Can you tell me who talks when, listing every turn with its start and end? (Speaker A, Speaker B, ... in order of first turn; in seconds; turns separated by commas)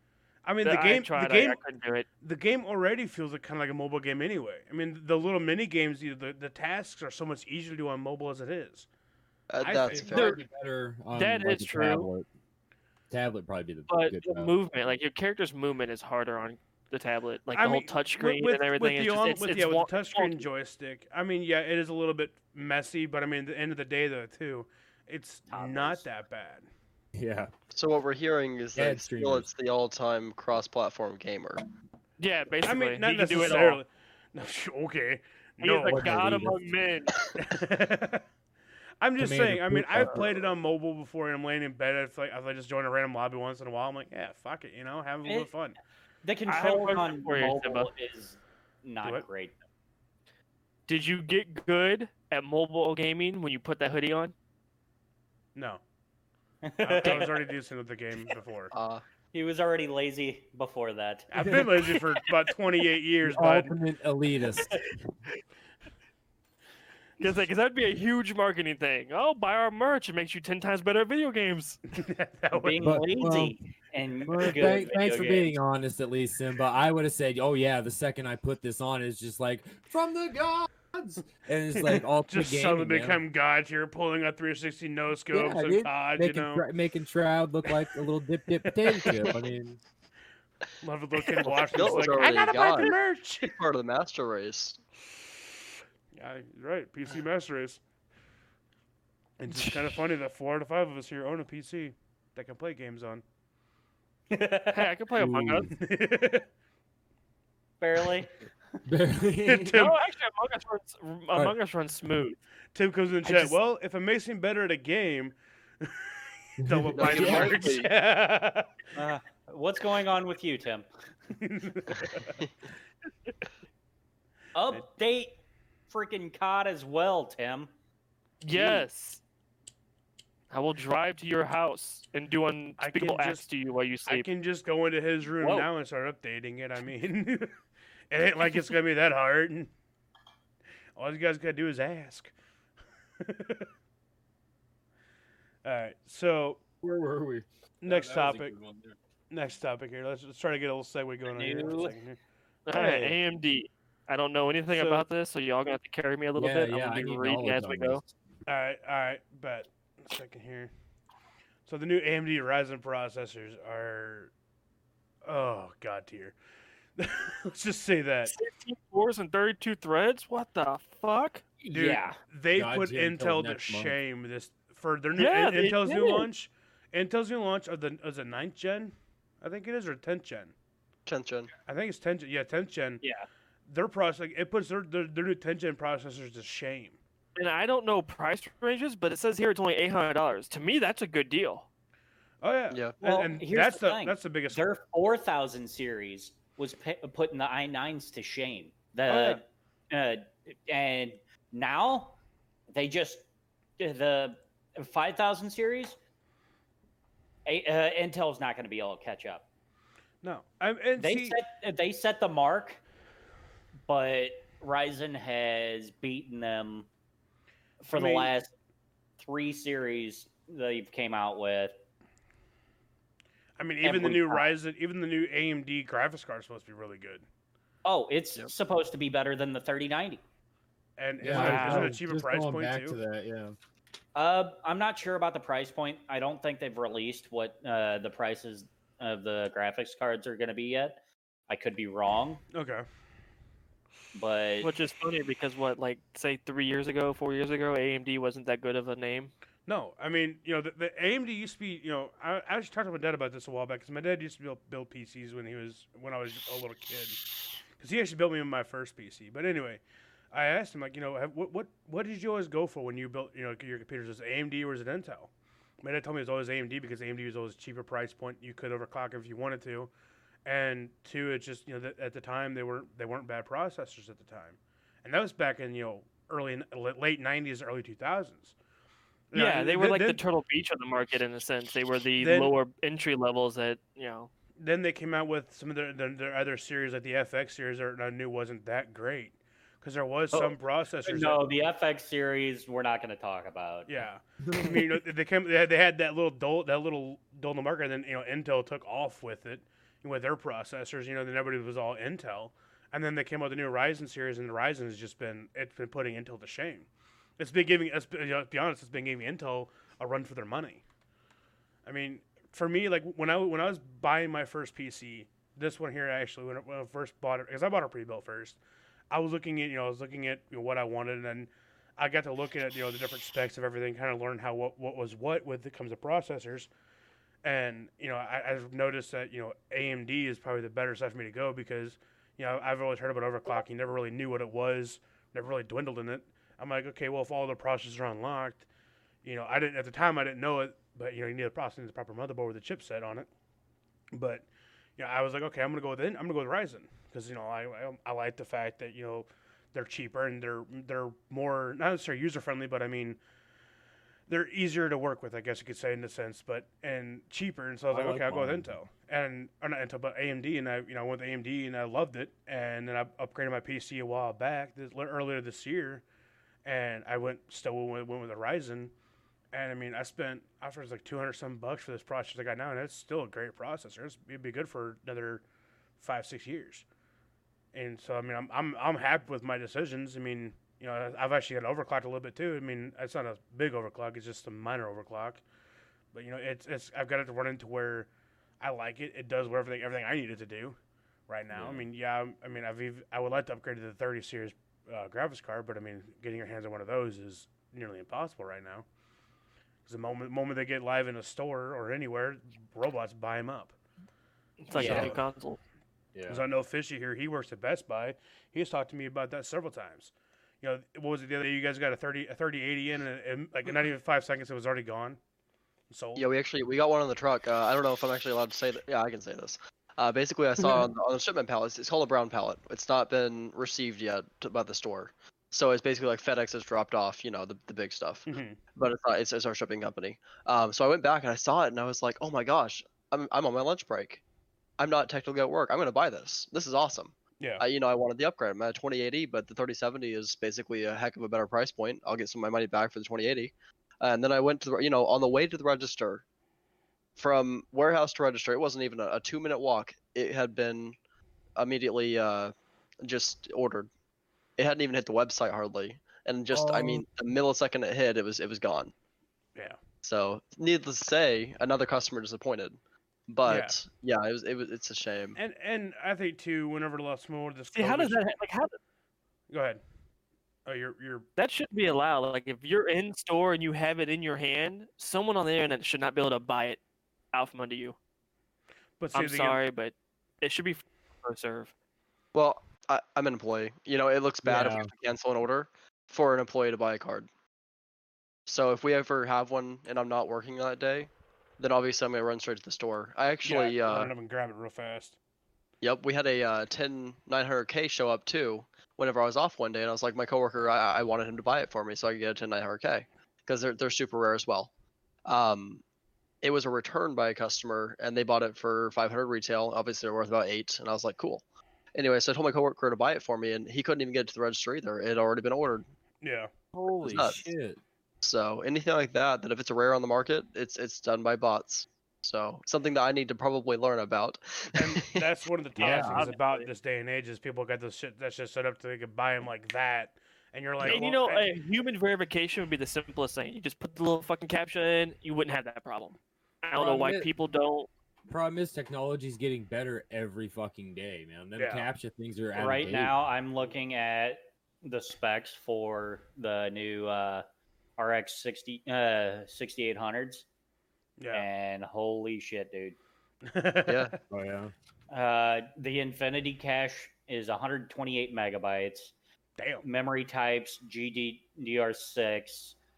Speaker A: 0.4-1.6, Speaker B: 0.6-2.0, Speaker A: 2.2-8.9, Speaker C: 9.5-10.4, Speaker A: 9.6-10.3, Speaker D: 9.9-12.3, Speaker B: 11.1-12.1, Speaker D: 13.1-14.5, Speaker B: 13.9-20.4, Speaker A: 17.5-26.7, Speaker E: 25.5-26.0, Speaker D: 27.1-27.5, Speaker C: 27.7-31.6, Speaker D: 28.7-29.5, Speaker B: 32.2-33.8, Speaker A: 32.6-36.1, Speaker B: 35.6-37.3, Speaker D: 35.8-36.7, Speaker A: 37.4-38.2, Speaker A: 39.0-45.8, Speaker D: 39.2-40.5, Speaker E: 45.2-45.5, Speaker E: 46.2-49.6, Speaker B: 46.5-47.9, Speaker B: 50.9-54.3, Speaker A: 55.5-55.8, Speaker E: 56.6-57.3, Speaker A: 56.8-58.7, Speaker C: 58.7-59.0, Speaker E: 59.3-61.3, Speaker A: 61.3-63.7, Speaker D: 61.4-61.7, Speaker D: 63.2-64.7, Speaker B: 67.2-71.8, Speaker A: 71.9-72.9, Speaker E: 72.5-75.6, Speaker D: 72.8-73.6, Speaker D: 74.2-83.2, Speaker A: 81.9-86.6, Speaker D: 85.3-89.8, Speaker A: 88.9-89.2, Speaker A: 90.8-93.6, Speaker C: 91.5-94.8, Speaker A: 96.1-97.8, Speaker A: 99.4-103.2, Speaker E: 104.3-104.7, Speaker B: 104.7-105.7, Speaker D: 105.2-105.7, Speaker A: 105.7-106.5, Speaker E: 107.8-108.3, Speaker D: 108.8-109.8, Speaker A: 109.4-110.0, Speaker B: 109.8-112.4, Speaker A: 112.7-118.7, Speaker E: 113.2-113.5, Speaker D: 116.6-117.7, Speaker C: 116.9-117.9, Speaker E: 118.9-120.9, Speaker A: 121.4-122.3, Speaker E: 124.5-125.4, Speaker E: 125.9-127.7, Speaker B: 128.4-129.2, Speaker A: 128.5-128.8, Speaker B: 130.5-134.3, Speaker A: 132.8-133.4, Speaker A: 134.1-137.6, Speaker A: 138.1-139.7, Speaker A: 141.0-142.3, Speaker A: 143.2-143.7, Speaker A: 145.6-146.6, Speaker D: 146.8-149.0, Speaker A: 147.8-148.5, Speaker A: 149.3-152.2, Speaker E: 151.3-152.0, Speaker B: 152.7-158.0, Speaker A: 152.7-153.2, Speaker A: 154.7-155.0, Speaker D: 156.3-158.1, Speaker A: 158.5-160.7, Speaker A: 161.7-164.3, Speaker A: 165.2-166.3, Speaker A: 167.0-168.3, Speaker B: 168.3-171.4, Speaker E: 171.6-172.2, Speaker A: 171.7-180.5, Speaker D: 172.5-173.9, Speaker B: 175.2-176.3, Speaker C: 181.1-181.5, Speaker A: 181.7-183.0, Speaker E: 183.0-183.3, Speaker A: 183.7-187.0, Speaker B: 187.3-191.7, Speaker A: 192.4-194.6, Speaker C: 192.7-193.0, Speaker E: 193.0-202.1, Speaker A: 199.1-199.4, Speaker E: 202.7-203.2, Speaker E: 203.8-205.9, Speaker E: 207.4-209.4, Speaker A: 210.2-211.4, Speaker E: 211.0-212.8, Speaker E: 213.9-216.9, Speaker E: 217.8-218.5, Speaker A: 217.9-218.3, Speaker E: 219.2-221.7, Speaker A: 223.6-227.2, Speaker E: 223.8-224.5, Speaker E: 227.8-230.2, Speaker A: 231.0-233.0, Speaker D: 231.2-233.6, Speaker B: 231.3-231.9, Speaker E: 234.1-242.4, Speaker A: 242.5-242.8, Speaker E: 244.1-244.7, Speaker B: 244.6-249.3, Speaker A: 249.7-257.2, Speaker A: 257.8-265.3, Speaker A: 265.8-269.9, Speaker A: 270.4-278.5, Speaker A: 279.3-280.2, Speaker B: 279.3-284.3, Speaker A: 282.2-282.5, Speaker A: 284.6-291.5, Speaker E: 290.3-293.9, Speaker A: 293.9-306.9, Speaker D: 294.5-294.9, Speaker A: 307.4-310.8, Speaker A: 311.9-318.6, Speaker A: 319.1-326.7, Speaker A: 327.4-338.6, Speaker A: 339.2-343.3, Speaker A: 344.1-353.2, Speaker A: 354.3-366.0, Speaker D: 357.9-358.7, Speaker A: 366.6-368.9, Speaker A: 369.5-375.4, Speaker A: 376.0-376.8, Speaker A: 377.7-385.4, Speaker A: 386.1-388.1, Speaker A: 388.6-390.8, Speaker A: 391.3-398.9, Speaker D: 391.5-391.9, Speaker A: 399.9-403.7, Speaker B: 404.6-405.6, Speaker D: 404.7-405.2, Speaker A: 404.7-405.2, Speaker D: 406.1-406.4, Speaker A: 406.3-415.2, Speaker A: 415.9-416.3, Speaker C: 416.1-434.2, Speaker A: 428.3-428.6, Speaker C: 434.8-446.2, Speaker C: 447.2-450.9, Speaker C: 451.6-453.9, Speaker C: 454.6-458.9, Speaker D: 456.5-457.0, Speaker C: 460.0-465.4, Speaker A: 463.4-463.8, Speaker A: 465.4-468.2, Speaker B: 467.7-468.8, Speaker A: 469.5-469.8, Speaker A: 470.6-471.3, Speaker B: 471.4-476.8, Speaker B: 477.3-477.9, Speaker A: 479.0-479.6, Speaker B: 479.1-481.7, Speaker C: 482.3-487.3, Speaker D: 484.4-484.9, Speaker C: 488.5-494.1, Speaker A: 493.4-495.2, Speaker C: 495.8-504.7, Speaker C: 505.2-505.8, Speaker C: 506.4-511.4, Speaker C: 511.9-515.8, Speaker A: 516.2-516.5, Speaker D: 516.7-517.8, Speaker C: 517.0-517.5, Speaker C: 518.2-525.2, Speaker A: 524.7-531.5, Speaker B: 525.8-526.7, Speaker D: 525.8-526.3, Speaker B: 530.8-537.9, Speaker D: 536.7-537.3, Speaker D: 538.3-543.1, Speaker A: 541.6-541.9, Speaker E: 542.6-547.4, Speaker E: 548.0-550.4, Speaker A: 551.2-551.5, Speaker E: 551.3-553.0, Speaker A: 553.4-554.1, Speaker C: 553.9-554.1, Speaker D: 554.3-554.7, Speaker E: 555.1-559.1, Speaker A: 559.6-559.9, Speaker E: 559.8-562.8